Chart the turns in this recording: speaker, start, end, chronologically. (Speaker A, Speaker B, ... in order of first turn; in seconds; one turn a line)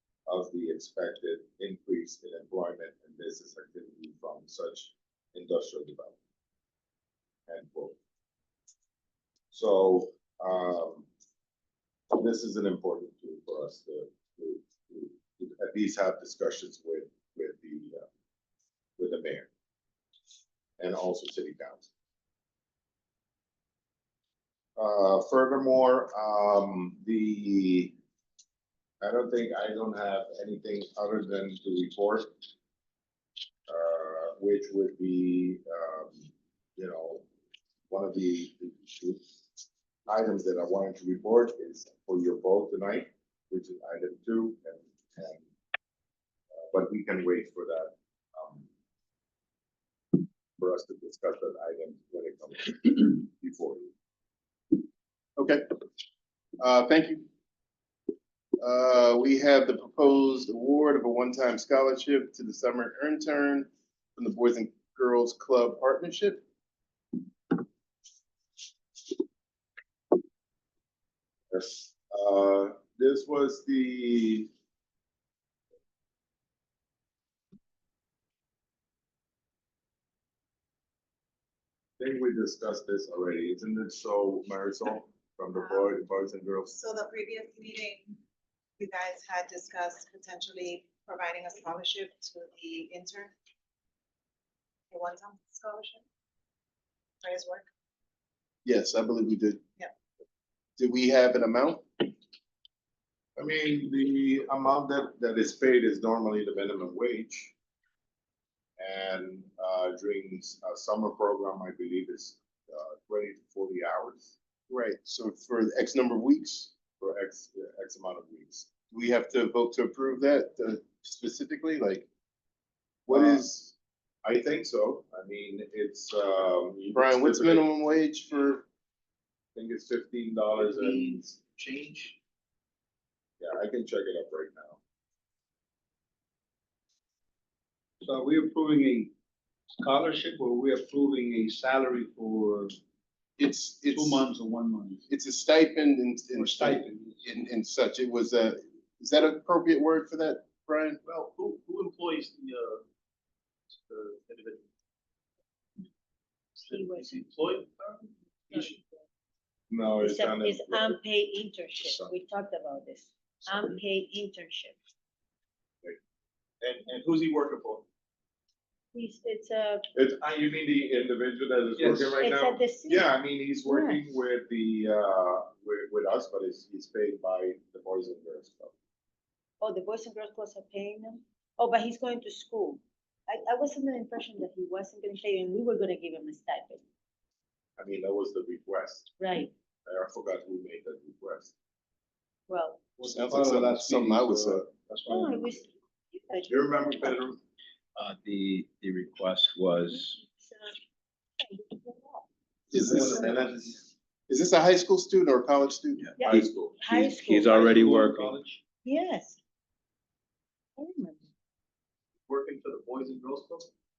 Speaker A: 0.3-6.2
Speaker A: 7.5-8.0
Speaker A: 9.5-11.1
Speaker A: 12.1-18.0
Speaker A: 19.0-19.5
Speaker A: 20.8-21.9
Speaker A: 24.8-27.9
Speaker A: 29.0-32.4
Speaker A: 33.7-37.2
Speaker A: 37.9-39.2
Speaker A: 40.1-45.4
Speaker A: 46.5-48.7
Speaker A: 50.6-53.9
Speaker B: 55.4-55.6
Speaker B: 56.6-57.3
Speaker B: 58.6-66.4
Speaker A: 71.5-74.5
Speaker A: 82.0-86.7
Speaker C: 85.6-85.9
Speaker C: 86.7-88.2
Speaker C: 88.8-93.3
Speaker C: 94.9-96.0
Speaker C: 97.2-97.7
Speaker B: 98.6-99.6
Speaker B: 100.8-102.0
Speaker A: 103.3-107.5
Speaker A: 108.8-114.3
Speaker B: 114.7-116.7
Speaker A: 117.0-118.7
Speaker B: 118.9-122.1
Speaker B: 123.1-123.5
Speaker A: 123.1-127.7
Speaker B: 126.9-128.6
Speaker A: 129.5-131.4
Speaker D: 130.5-132.2
Speaker A: 133.4-134.8
Speaker E: 138.0-139.1
Speaker E: 139.8-142.8
Speaker B: 143.4-144.2
Speaker E: 143.9-145.0
Speaker B: 145.1-151.0
Speaker E: 146.3-147.2
Speaker D: 151.0-152.8
Speaker D: 153.8-154.6
Speaker D: 156.6-158.8
Speaker F: 156.7-157.2
Speaker F: 158.5-158.8
Speaker A: 159.7-161.0
Speaker F: 160.0-164.8
Speaker A: 161.8-162.1
Speaker D: 166.6-167.8
Speaker F: 168.9-169.9
Speaker A: 169.9-178.7
Speaker E: 171.8-172.1
Speaker F: 172.2-173.1
Speaker F: 173.6-174.0
Speaker F: 179.6-186.8
Speaker A: 187.8-189.1
Speaker F: 189.2-189.5
Speaker A: 189.8-191.5
Speaker F: 192.5-192.8
Speaker E: 193.0-195.6
Speaker B: 193.1-194.7
Speaker F: 195.1-197.2
Speaker A: 196.5-197.3
Speaker G: 197.9-200.2
Speaker F: 199.9-200.8
Speaker F: 201.4-202.2
Speaker B: 202.7-203.2
Speaker E: 202.7-203.3
Speaker A: 202.8-203.7
Speaker B: 204.3-206.4
Speaker F: 206.2-207.6
Speaker A: 206.2-206.8
Speaker G: 207.2-208.3
Speaker E: 207.4-208.6
Speaker F: 208.8-209.4
Speaker F: 210.8-211.2
Speaker D: 212.3-213.7